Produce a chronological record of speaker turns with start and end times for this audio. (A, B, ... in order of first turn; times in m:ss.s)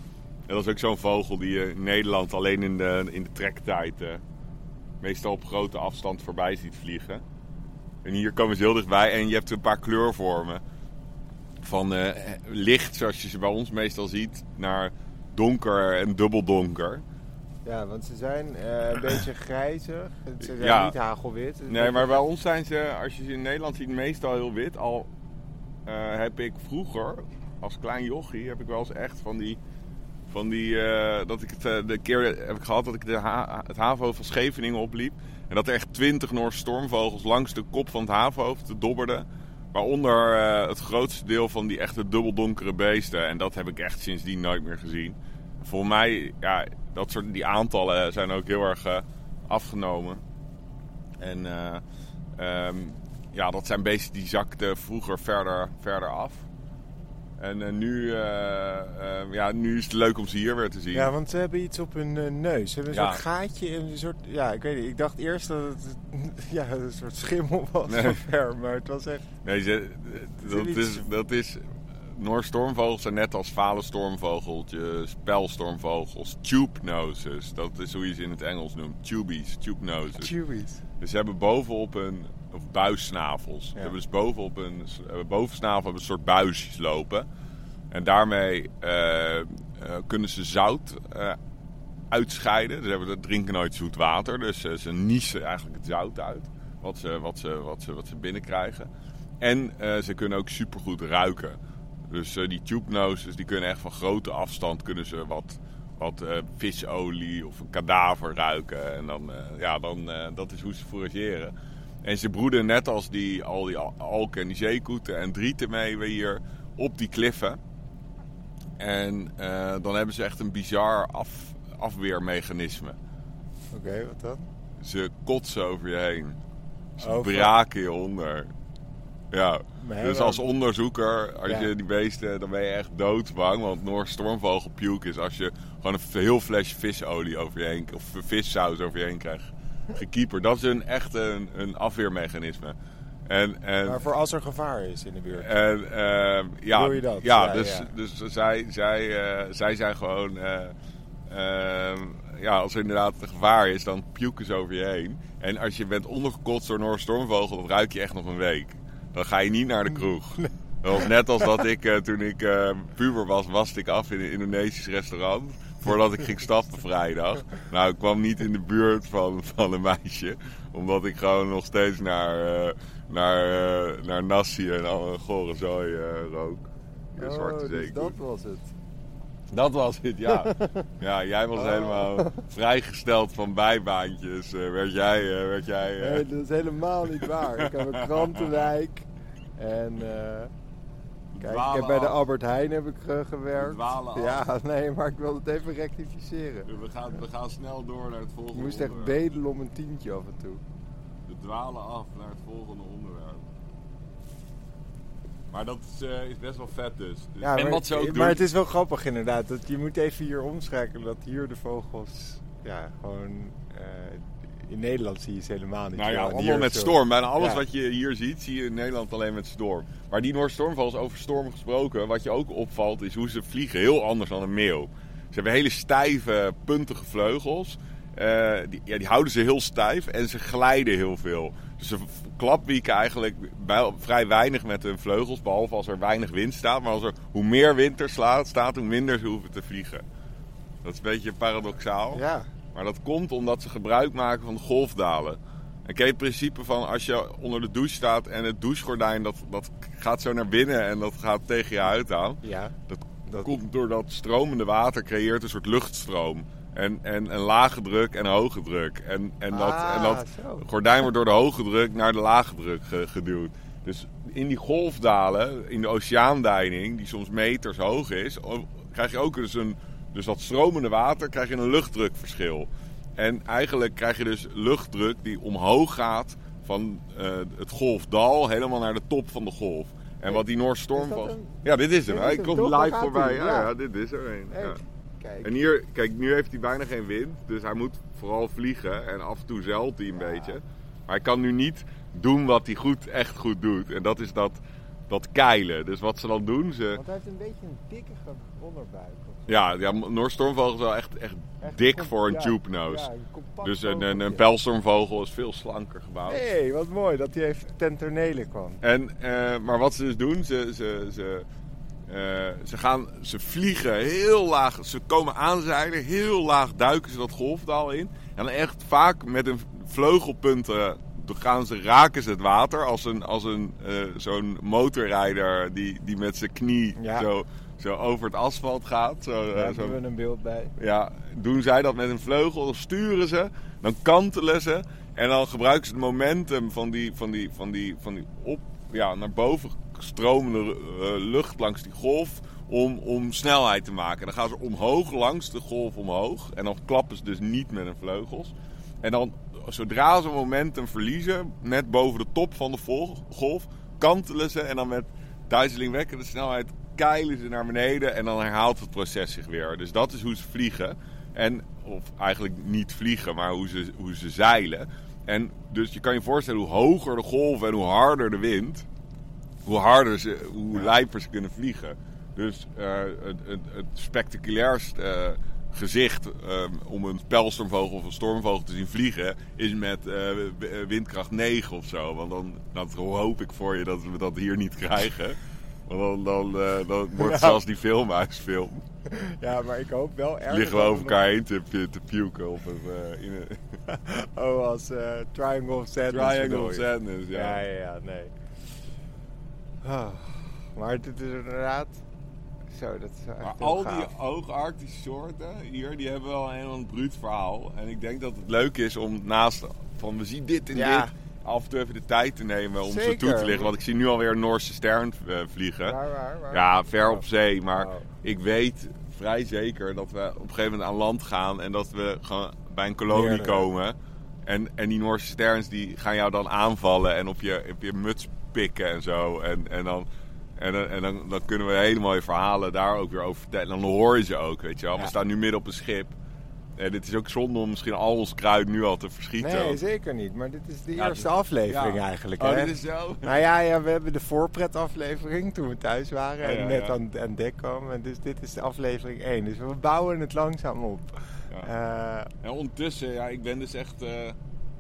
0:00.5-0:04.2 A
0:05.0-0:07.2 A
0:08.0-0:10.6 A
0:11.6-0:17.0 A
0:17.6-0:22.2 B
0:20.4-0:21.0 A
0:21.7-0:25.1 A
0:25.9-0:29.6 A
0:30.3-0:50.2 A
0:51.2-0:51.8 A
0:52.4-0:56.5 A
0:57.4-1:01.1 A
1:00.9-1:09.2 B
1:02.9-1:03.2 A
1:07.9-1:08.2 A
1:09.4-1:20.3 A
1:10.4-1:11.0 B
1:20.2-1:20.8 B
1:21.0-1:27.3 A
1:27.9-1:31.4 A
1:32.1-1:38.9 A
1:39.4-1:51.5 A
1:52.0-1:57.6 A
1:58.8-2:03.0 A
2:03.7-2:04.5 B
2:04.8-2:06.4 A
2:07.0-2:08.5 A
2:07.0-2:07.5 B
2:09.3-2:22.8 A
2:09.8-2:10.4 B
2:23.3-2:24.0 A
2:23.8-2:25.5 B
2:25.4-2:30.8 A
2:26.7-2:27.9 B
2:31.3-2:58.2 A
2:57.2-2:58.7 B
2:59.5-3:06.2 A
3:00.3-3:00.9 B
3:01.6-3:02.4 B
3:06.0-3:10.5 B
3:07.2-3:08.7 A
3:11.3-3:12.2 A
3:11.4-3:16.7 B
3:13.5-3:14.5 A
3:16.7-3:19.2 A
3:18.5-3:20.6 B
3:21.3-3:23.5 A
3:25.5-3:28.4 A
3:27.4-3:37.6 B
3:35.9-4:00.0 A
4:00.8-4:44.8 A
4:02.1-4:02.5 B
4:12.4-4:13.6 B
4:19.5-4:20.7 B
4:41.0-4:43.7 B
4:44.5-4:45.5 B
4:45.4-4:57.0 A
4:50.1-4:50.6 B
4:57.0-4:59.5 B
4:59.5-5:03.1 A
5:01.6-5:04.4 B
5:03.6-5:06.5 A
5:06.3-5:08.8 B
5:08.8-5:11.5 A
5:12.1-5:30.0 A
5:27.0-5:27.3 B
5:29.5-5:30.7 B
5:30.8-6:08.9 A
6:09.6-6:28.8 A
6:27.2-6:27.6 B
6:29.0-6:31.2 B
6:30.5-6:33.8 A
6:33.9-6:38.3 B
6:36.1-6:37.6 A
6:39.8-6:42.0 B
6:42.7-6:44.1 B
6:43.4-6:56.0 A
6:50.7-6:51.1 B
6:52.8-6:53.7 B
6:55.8-6:58.1 B
6:56.5-7:16.2 A
7:03.1-7:03.7 B
7:16.8-7:19.8 A
7:19.4-7:32.3 B
7:21.0-7:23.3 A
7:26.4-7:27.0 A
7:32.4-7:34.4 A